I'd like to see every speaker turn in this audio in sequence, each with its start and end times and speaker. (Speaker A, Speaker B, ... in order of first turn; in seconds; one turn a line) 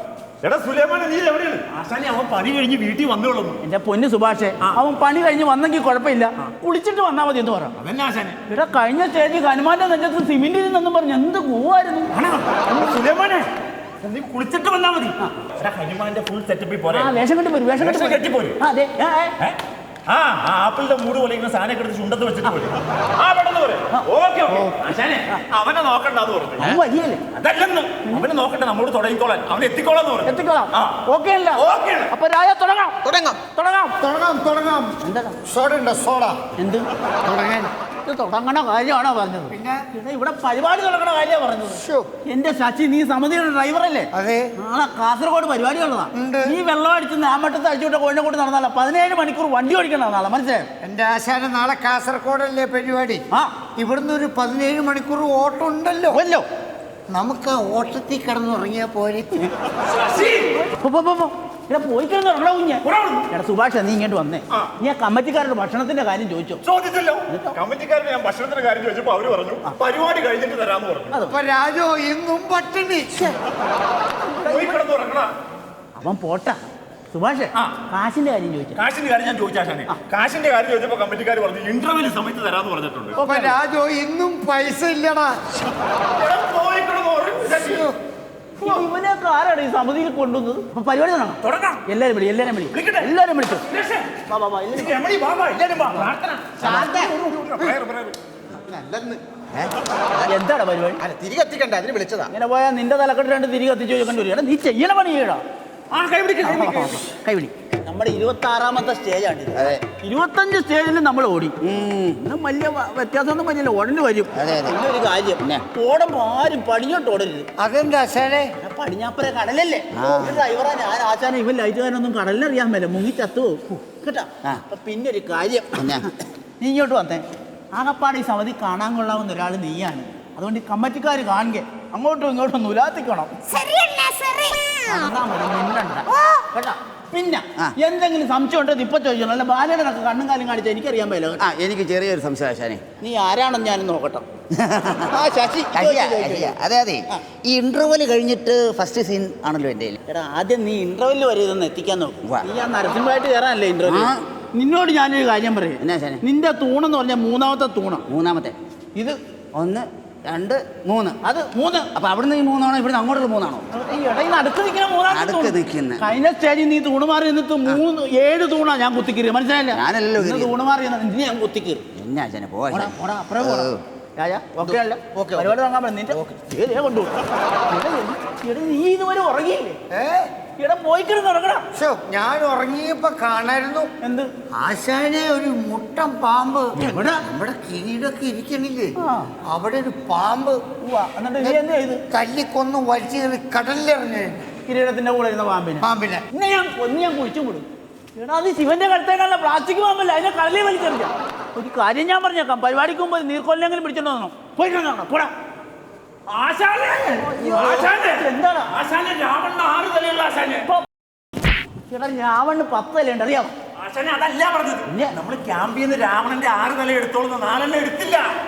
Speaker A: 0.4-3.6
Speaker B: 3.6-7.7
Speaker A: 7.8-8.4
Speaker B: 8.5-12.1
Speaker A: 12.1-13.5
Speaker A: 14.0-17.1
Speaker B: 16.9-19.4
Speaker A: 17.8-18.6
Speaker A: 19.4-26.8
Speaker B: 23.9-24.7
Speaker B: 26.6-27.2
Speaker A: 27.4-31.0
Speaker B: 30.3-34.0
Speaker A: 31.6-32.1
Speaker C: 33.0-33.4
Speaker D: 34.0-36.4
Speaker B: 35.0-35.4
Speaker B: 36.6-36.9
Speaker D: 37.2-37.7
Speaker B: 38.0-50.7
Speaker D: 39.5-39.8
Speaker D: 41.8-42.1
Speaker D: 44.1-44.5
Speaker D: 46.1-46.6
Speaker D: 50.8-53.2
Speaker D: 53.8-56.2
Speaker B: 56.1-56.5
Speaker D: 57.1-59.5
Speaker A: 59.9-60.6
Speaker B: 60.4-66.6
Speaker A: 62.9-63.2
Speaker A: 66.6-71.2
Speaker B: 67.3-67.6
Speaker B: 71.1-71.4
Speaker D: 71.3-73.3
Speaker B: 74.2-74.8
Speaker A: 74.5-75.3
Speaker B: 76.0-76.6
Speaker B: 77.1-78.8
Speaker A: 78.8-83.2
Speaker B: 83.2-83.6
Speaker D: 83.2-85.4
Speaker A: 86.2-87.9
Speaker D: 87.5-88.0
Speaker B: 88.6-93.7
Speaker A: 91.4-91.8
Speaker A: 92.7-93.1
Speaker A: 93.7-94.1
Speaker B: 94.3-95.0
Speaker A: 94.7-98.2
Speaker B: 96.6-97.6
Speaker C: 96.6-97.1
Speaker C: 98.5-99.2
Speaker B: 100.3-101.0
Speaker C: 101.0-102.3
Speaker B: 102.3-105.4
Speaker A: 105.9-107.0
Speaker B: 106.4-111.6
Speaker E: 109.5-109.8
Speaker E: 111.6-112.2
Speaker B: 112.1-117.5
Speaker E: 114.3-114.8
Speaker D: 117.6-118.5
Speaker B: 118.6-125.8
Speaker E: 119.9-120.4
Speaker E: 125.8-126.1
Speaker B: 126.6-133.3
Speaker E: 133.5-134.7
Speaker B: 134.8-141.4
Speaker E: 141.4-142.8
Speaker B: 143.0-144.2
Speaker E: 144.5-145.1
Speaker B: 145.0-146.5
Speaker E: 145.7-150.0
Speaker B: 150.1-158.0
Speaker E: 153.8-154.2
Speaker E: 155.8-156.2
Speaker E: 158.1-158.6
Speaker E: 159.6-161.2
Speaker B: 161.2-161.9
Speaker E: 161.9-163.7
Speaker B: 163.7-171.8
Speaker E: 165.1-166.1
Speaker E: 169.7-170.5
Speaker E: 171.9-173.8
Speaker B: 172.7-177.2
Speaker C: 174.6-175.6
Speaker B: 177.7-179.8
Speaker D: 179.9-180.3
Speaker B: 180.6-181.7
Speaker D: 181.7-183.9
Speaker B: 184.0-184.3
Speaker D: 184.6-188.9
Speaker B: 186.8-187.2
Speaker B: 189.0-189.3
Speaker D: 189.5-190.6
Speaker B: 190.8-192.0
Speaker D: 191.4-194.4
Speaker B: 194.7-205.3
Speaker D: 195.8-196.2
Speaker A: 206.3-210.7
Speaker B: 207.2-208.7
Speaker B: 211.9-213.6
Speaker A: 213.8-218.3
Speaker B: 214.9-215.2